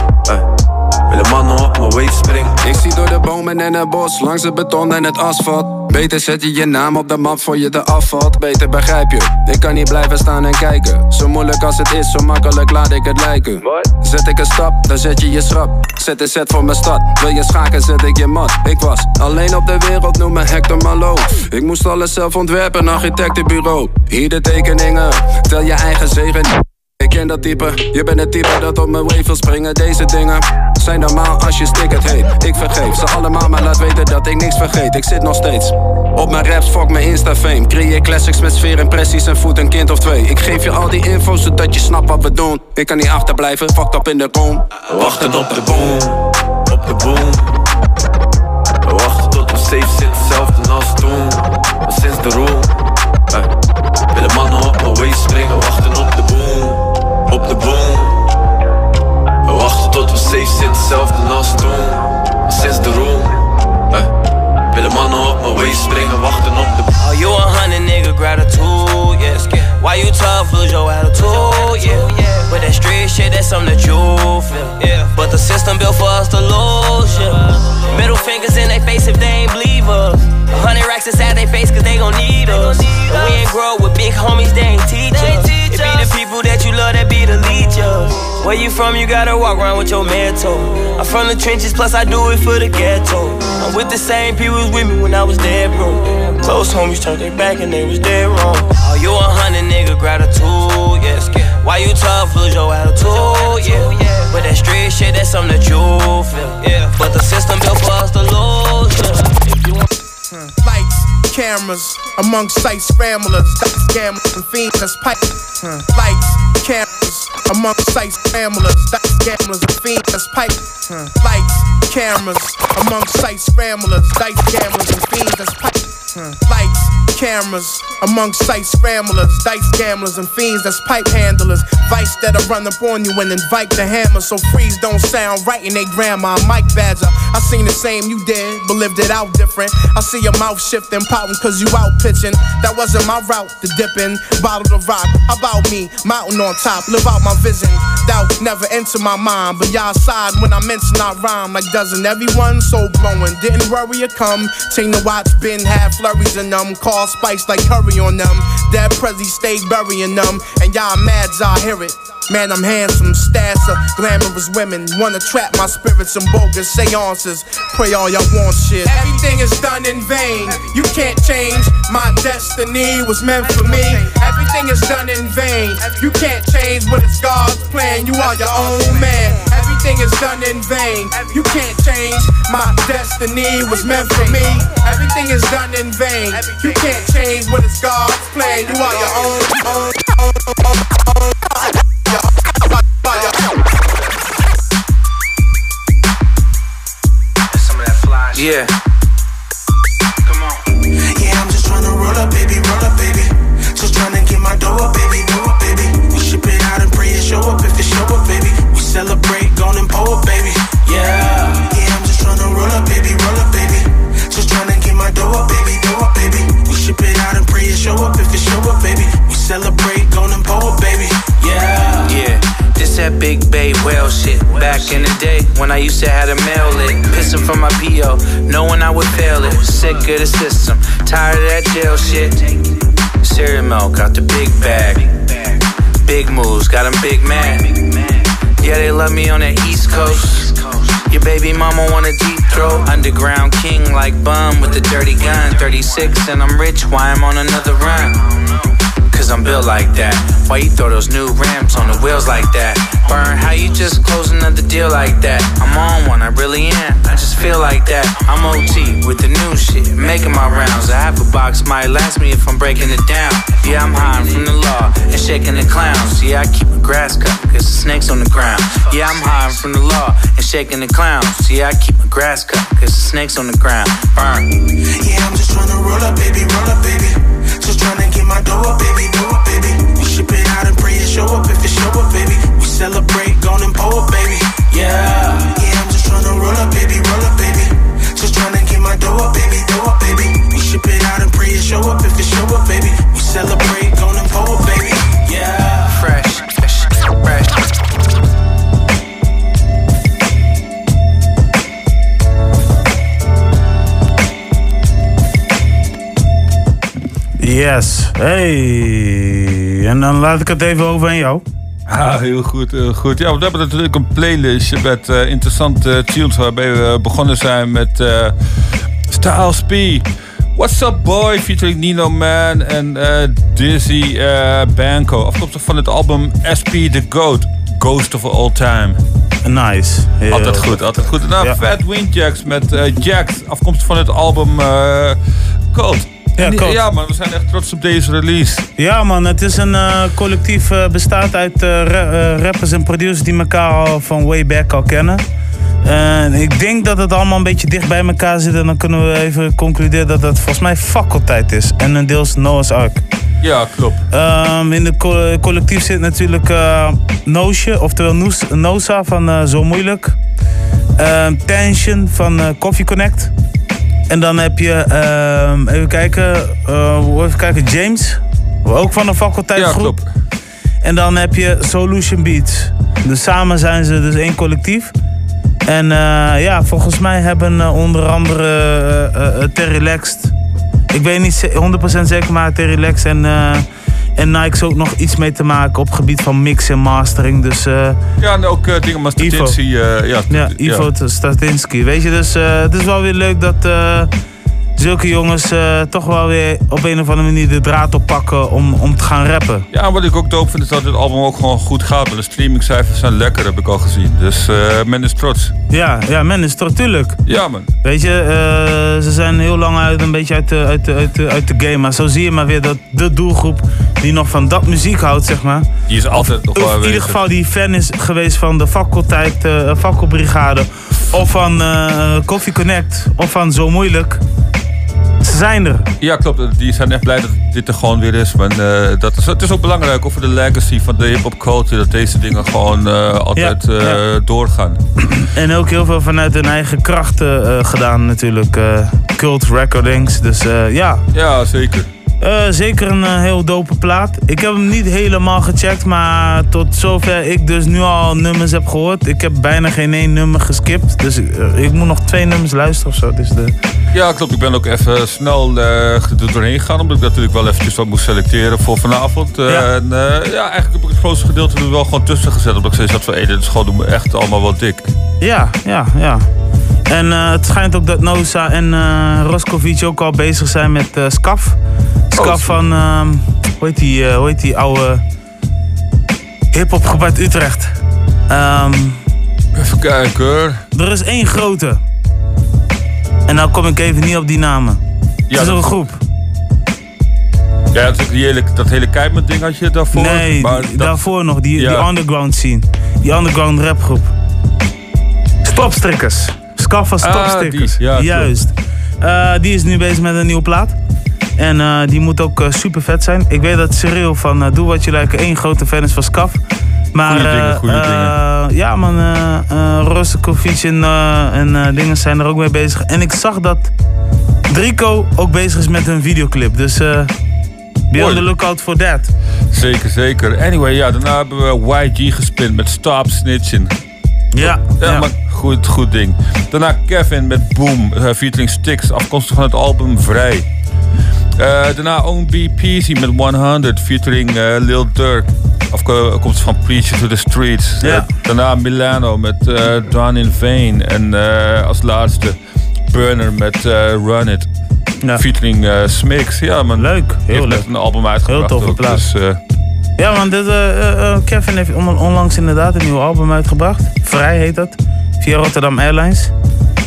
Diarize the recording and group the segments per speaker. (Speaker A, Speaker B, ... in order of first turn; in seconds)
Speaker A: 1.1-2.6, 44.9-46.2, 46.7-47.4, 48.9-52.7, 54.1-56.8, 57.3-58.1, 59.5-63.3, 64.7-66.9
Speaker B: 2.6-45.6
Speaker C: 67.0-109.8
Speaker D: 110.3-189.9, 193.1-193.4
Speaker E: 197.7-198.7, 200.3-200.6, 222.1-232.6, 233.2-235.2, 236.1-238.0, 238.6-248.5, 249.1-274.4, 295.9-297.5
Speaker F: 201.2-210.6, 211.7-221.2, 275.0-295.6
Speaker G: 307.4-311.4, 329.4-331.6, 336.4-336.8, 338.8-345.2, 345.8-353.0, 354.1-360.2, 361.0-363.3, 364.1-370.0, 370.8-374.9, 375.7-380.3, 380.9-388.0, 389.2-389.6, 390.3-394.1, 394.8-399.7, 405.7-407.2, 407.8-424.2, 425.2-425.9, 433.4-434.0, 435.2-441.0, 442.2-453.6, 465.2-466.3, 466.9-471.6, 472.1-475.0, 476.5-477.7, 478.3-479.0, 480.7-481.8, 483.3-484.8, 485.3-486.0, 489.9-494.1, 495.4-500.8, 501.4-506.4, 506.9-513.7, 514.5-517.1, 517.9-519.1, 524.4-525.1, 546.8-547.7, 548.3-549.0, 550.0-556.3
Speaker H: 311.9-318.4, 319.1-329.0, 330.3-335.2, 335.7-338.7, 353.4-354.0, 369.6-370.1, 388.2-390.9, 399.7-405.5, 407.3-407.7, 415.9-417.2, 426.0-434.8, 441.1-441.9, 453.9-464.9, 472.2-472.6, 479.6-480.6, 485.3-485.7, 487.7-491.9, 497.0-498.3, 507.1-508.1, 518.0-518.2, 519.5-523.7, 524.4-530.5, 531.4-542.4, 542.9-544.5, 545.2-549.4